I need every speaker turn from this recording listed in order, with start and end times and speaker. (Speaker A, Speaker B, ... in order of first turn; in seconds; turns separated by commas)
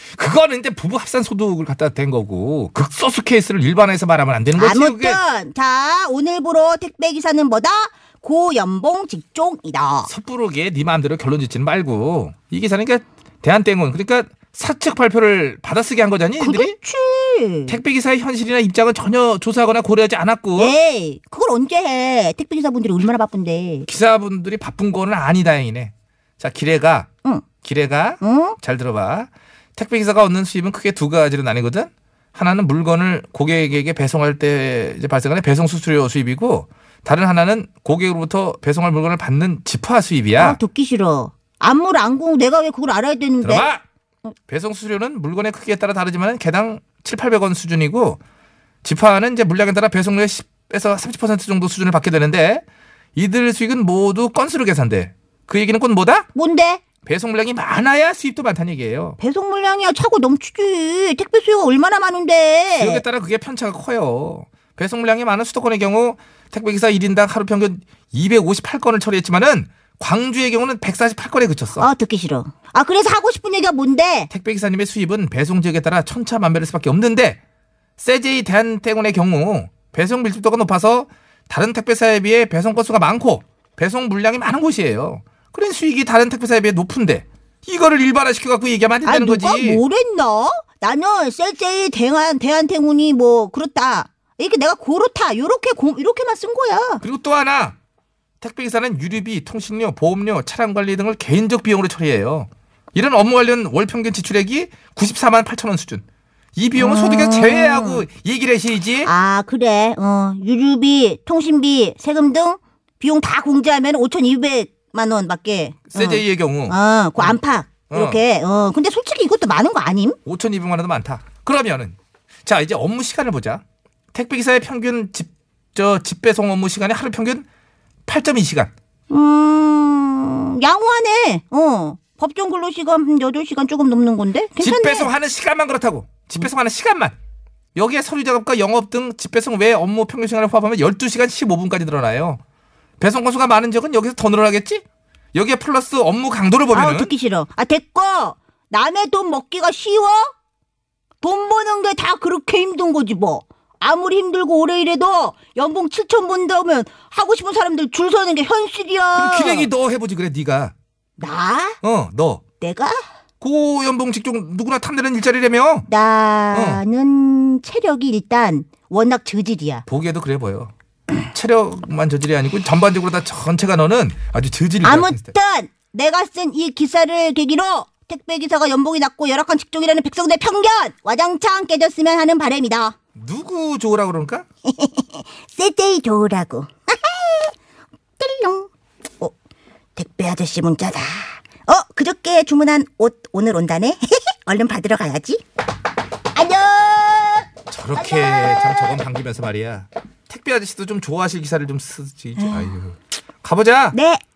Speaker A: 0.1-5.2, Speaker B: 4.5-10.1, Speaker A: 10.1-16.7, Speaker B: 16.4-17.8, Speaker A: 17.7-20.7, Speaker B: 20.6-23.9, Speaker A: 23.9-27.1, Speaker A: 27.6-40.6, Speaker B: 28.2-28.6, Speaker B: 40.4-43.7, Speaker A: 43.4-43.8, Speaker A: 44.5-48.2, Speaker A: 48.8-52.6, Speaker A: 53.1-56.3, Speaker B: 56.3-56.8, Speaker A: 57.0-59.2, Speaker B: 59.2-63.0, Speaker A: 62.8-71.9, Speaker B: 71.8-74.3, Speaker A: 74.3-77.4, Speaker A: 78.0-89.8, Speaker B: 89.0-97.0, Speaker A: 97.0-97.8, Speaker A: 98.4-106.0, Speaker A: 106.5-109.1, Speaker B: 106.8-108.0, Speaker B: 109.0-120.2, Speaker A: 115.9-117.3, Speaker A: 117.9-118.2, Speaker A: 120.2-123.6, Speaker A: 124.1-127.5, Speaker A: 128.1-128.7, Speaker B: 129.1-135.1, Speaker A: 134.6-137.1, Speaker A: 137.7-142.4, Speaker A: 143.0-147.1, Speaker B: 146.7-150.3, Speaker B: 151.2-159.7, Speaker A: 159.1-160.7, Speaker B: 161.2-161.8, Speaker A: 161.8-162.4, Speaker B: 162.6-163.0, Speaker A: 163.4-165.9, Speaker B: 165.9-169.8, Speaker A: 166.5-166.8, Speaker A: 169.9-170.7, Speaker A: 171.3-175.3, Speaker B: 174.8-182.9, Speaker A: 183.2-184.4, Speaker B: 184.7-187.5, Speaker B: 188.2-189.3, Speaker B: 189.9-195.4, Speaker B: 196.3-199.0, Speaker A: 197.7-203.9, Speaker B: 202.4-202.7, Speaker B: 203.9-204.2